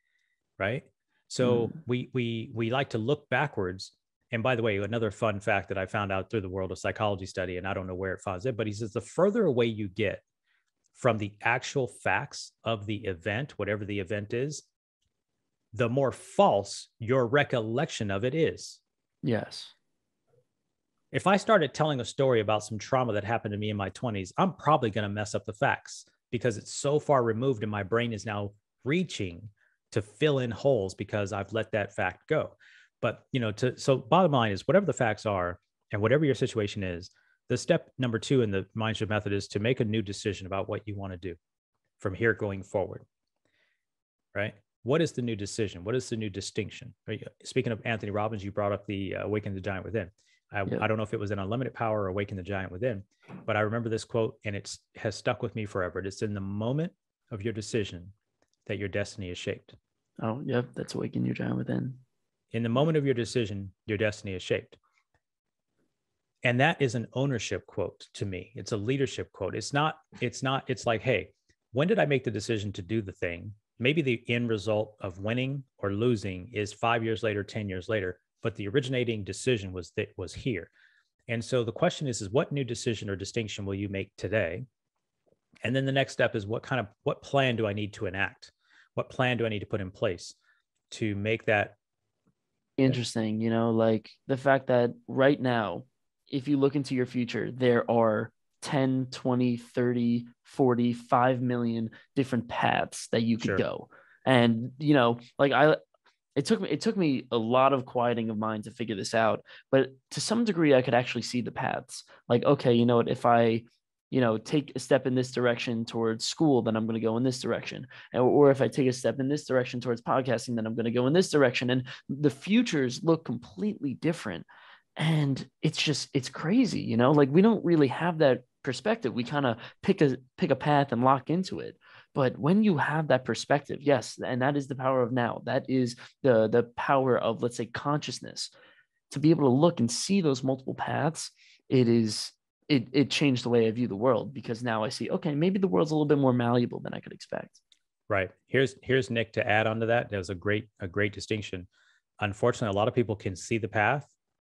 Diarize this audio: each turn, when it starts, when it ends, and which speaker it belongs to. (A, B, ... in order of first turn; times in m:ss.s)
0:00.6-0:10.2 A
0:01.4-0:01.8 B
0:11.0-0:14.6 A
0:15.7-0:18.8 A
0:19.2-0:19.7 B
0:21.1-0:41.4 A
0:42.0-0:43.0 A
0:44.3-0:58.1 A
0:58.7-0:59.8 A
1:00.2-1:02.0 B
1:02.5-1:04.8 A
1:06.4-1:20.7 A
1:21.3-1:24.6 A
1:25.6-1:30.4 A
1:30.9-1:31.8 A
1:32.8-1:45.8 B
1:46.4-2:04.5 B
2:05.0-2:18.5 B
2:19.1-2:27.6 B
2:28.1-2:31.7 A
2:32.2-2:34.1 A